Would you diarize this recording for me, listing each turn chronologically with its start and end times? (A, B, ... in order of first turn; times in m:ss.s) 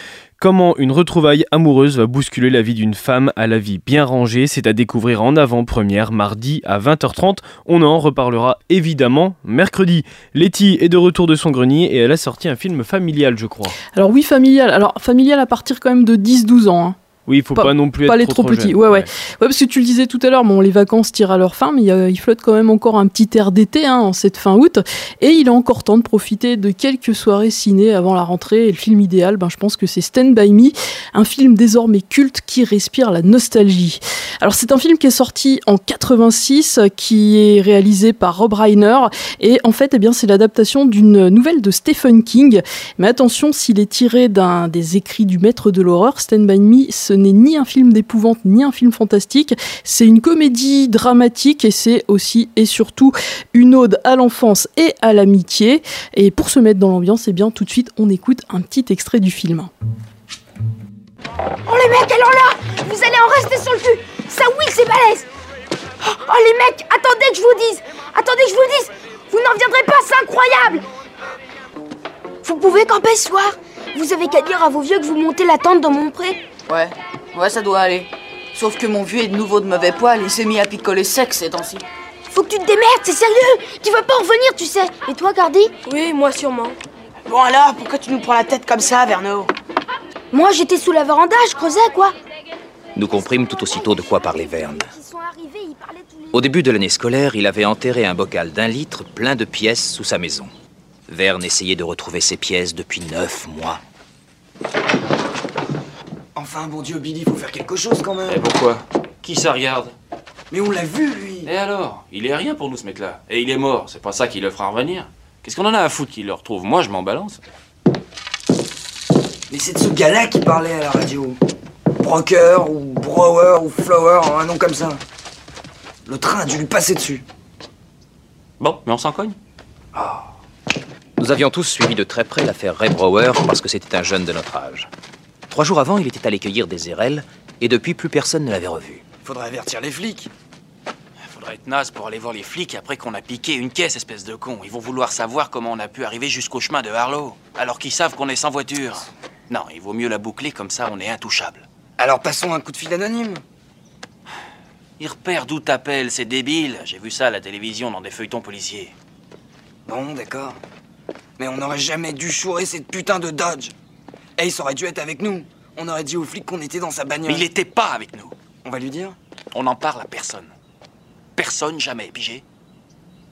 0:00.4-0:13.8 A
0:13.9-0:17.0 B
0:17.3-0:19.1 A
0:17.6-0:59.7 B
1:01.6-1:05.2 C
1:06.0-1:10.8 C
1:12.4-1:16.4 C
1:16.7-1:21.8 D
1:22.3-1:26.8 C
1:27.2-1:29.5 E
1:30.3-1:32.1 C
1:33.0-1:34.9 F
1:34.4-1:36.4 C
1:36.3-1:40.5 F
1:41.1-1:43.8 F
1:46.3-1:48.4 G
1:48.3-1:49.9 H
1:50.5-1:51.5 G
1:51.4-1:57.4 H
1:59.5-2:01.4 G
2:02.0-2:05.0 G
2:06.0-2:07.2 G
2:08.6-2:09.4 H
2:11.2-2:14.9 F
2:15.5-2:19.0 F
2:19.2-2:20.3 G
2:21.2-2:31.6 H
2:32.0-2:33.4 G
2:35.0-2:38.9 H
2:39.9-2:40.6 G
2:41.4-2:43.7 G
2:44.4-2:47.5 G
2:47.2-2:48.3 H
2:48.6-2:49.2 G
2:49.5-2:50.5 H
2:51.4-2:52.4 H